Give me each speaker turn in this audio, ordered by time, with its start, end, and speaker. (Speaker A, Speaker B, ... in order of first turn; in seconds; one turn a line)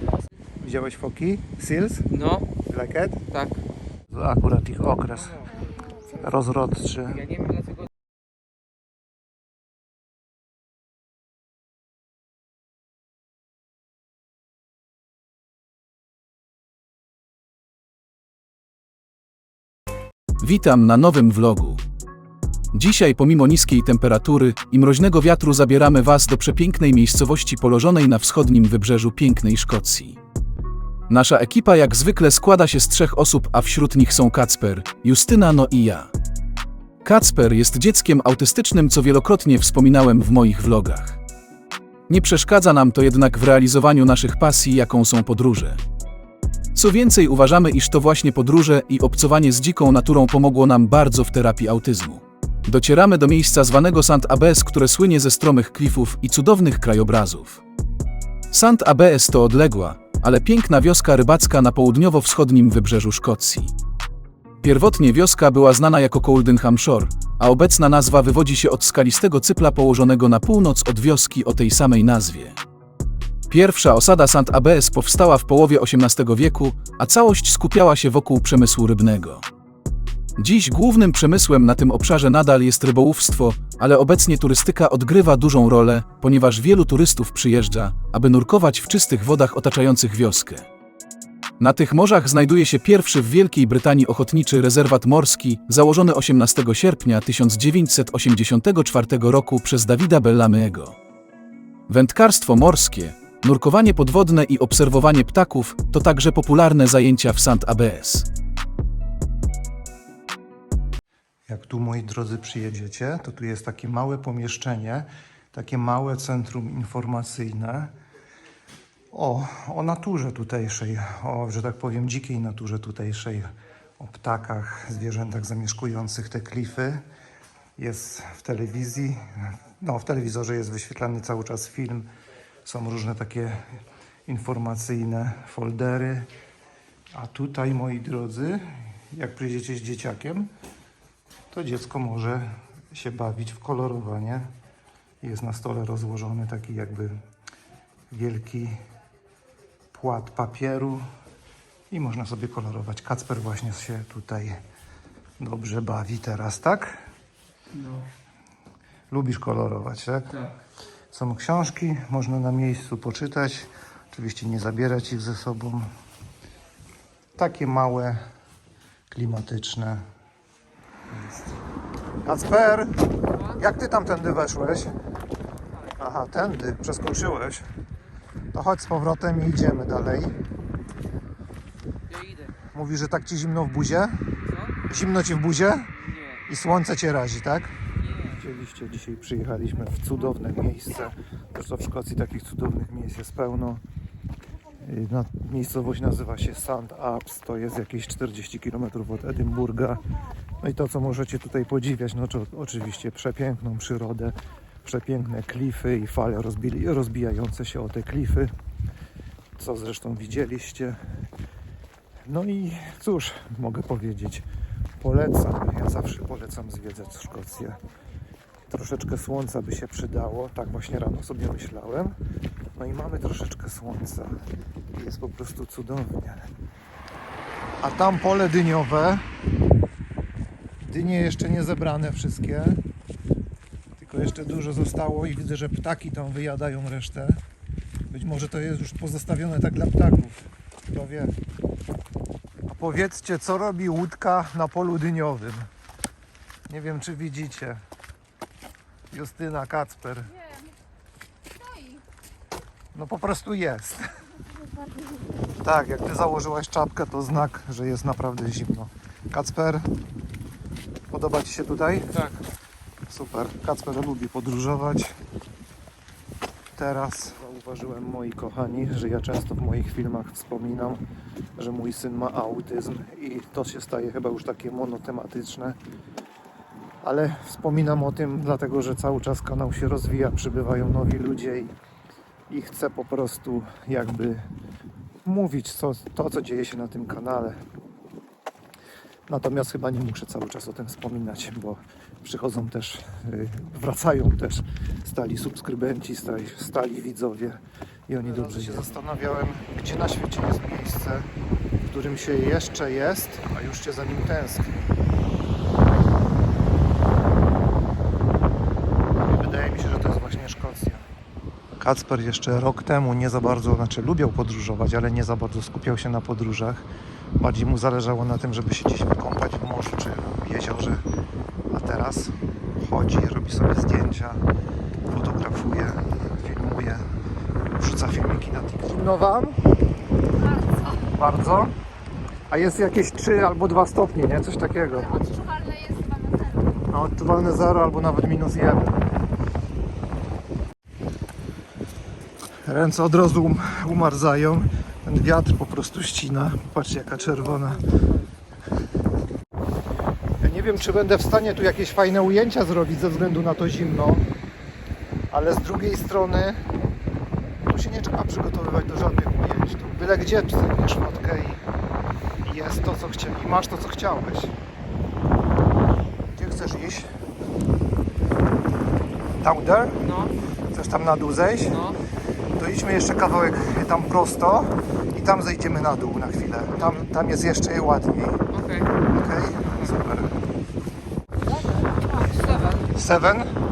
Speaker A: 0.6-2.1
Speaker B: 2.1-2.5
Speaker A: 2.7-3.2
Speaker B: 3.3-3.6
Speaker A: 4.1-5.5
Speaker A: 6.1-7.3
Speaker B: 7.1-7.8
Speaker C: 20.4-21.8
Speaker C: 22.7-30.2
Speaker C: 31.1-36.1
Speaker C: 37.0-41.2
Speaker C: 42.1-45.8
Speaker C: 46.7-57.6
Speaker C: 58.5-63.7
Speaker C: 64.6-72.5
Speaker C: 73.5-79.4
Speaker C: 80.4-90.7
Speaker C: 91.6-101.0
Speaker C: 101.9-108.2
Speaker A: 111.5-117.9
Speaker A: 119.1-123.5
Speaker A: 124.0-127.0
Speaker A: 127.8-132.1
Speaker A: 132.6-133.6
Speaker A: 134.3-136.3
Speaker A: 137.1-140.5
Speaker A: 141.5-144.5
Speaker A: 145.2-147.1
Speaker A: 148.1-148.8
Speaker A: 149.9-151.0
Speaker A: 151.9-154.6
Speaker A: 155.4-156.9
Speaker B: 157.8-158.1
Speaker A: 159.1-160.5
Speaker A: 161.1-165.9
Speaker A: 167.4-168.2
Speaker A: 169.1-170.0
Speaker A: 171.1-171.5
Speaker A: 172.2-174.9
Speaker A: 176.0-177.6
Speaker A: 178.5-180.4
Speaker B: 182.1-182.6
Speaker A: 182.7-184.2
Speaker B: 184.4-184.8
Speaker A: 184.9-185.9
Speaker B: 185.9-186.4
Speaker A: 186.5-187.7
Speaker B: 188.0-188.3
Speaker A: 188.3-193.8
Speaker A: 194.8-200.0
Speaker A: 200.6-208.5
Speaker A: 209.6-211.0
Speaker A: 212.2-214.4
Speaker A: 215.0-217.8
Speaker A: 218.7-222.2
Speaker A: 222.8-224.3
Speaker A: 224.9-226.4
Speaker A: 227.8-229.2
Speaker A: 230.8-232.8
Speaker A: 234.0-237.4
Speaker A: 238.1-241.3
Speaker A: 242.8-245.7
Speaker A: 246.7-247.8
Speaker A: 249.1-250.3
Speaker D: 251.6-252.0
Speaker A: 252.9-254.1
Speaker A: 255.5-259.9
Speaker A: 261.1-262.3
Speaker B: 262.1-262.4
Speaker A: 263.1-265.1
Speaker A: 266.8-271.0
Speaker A: 271.6-275.8
Speaker A: 277.0-281.7
Speaker A: 282.5-284.5
Speaker A: 285.2-287.6
Speaker A: 289.3-301.3
Speaker A: 301.8-304.9
Speaker A: 309.3-311.1
Speaker A: 311.8-316.8
Speaker A: 317.4-321.0
Speaker A: 321.7-324.4
Speaker A: 325.1-327.1
Speaker A: 327.8-329.6
Speaker D: 330.4-330.9
Speaker A: 330.8-331.7
Speaker A: 332.5-335.2
Speaker D: 335.0-336.8
Speaker A: 336.9-339.0
Speaker A: 342.6-347.8
Speaker B: 347.3-348.0
Speaker A: 350.4-354.2
Speaker A: 355.3-356.8
Speaker A: 357.6-361.6
Speaker A: 362.4-364.5
Speaker A: 366.3-367.1
Speaker A: 369.4-370.1
Speaker B: 370.0-370.3
Speaker A: 370.7-371.8
Speaker B: 371.7-372.0
Speaker A: 372.6-378.4
Speaker B: 376.7-377.0
Speaker B: 378.5-378.9
Speaker A: 379.0-380.3
Speaker B: 381.8-382.9
Speaker A: 382.9-383.5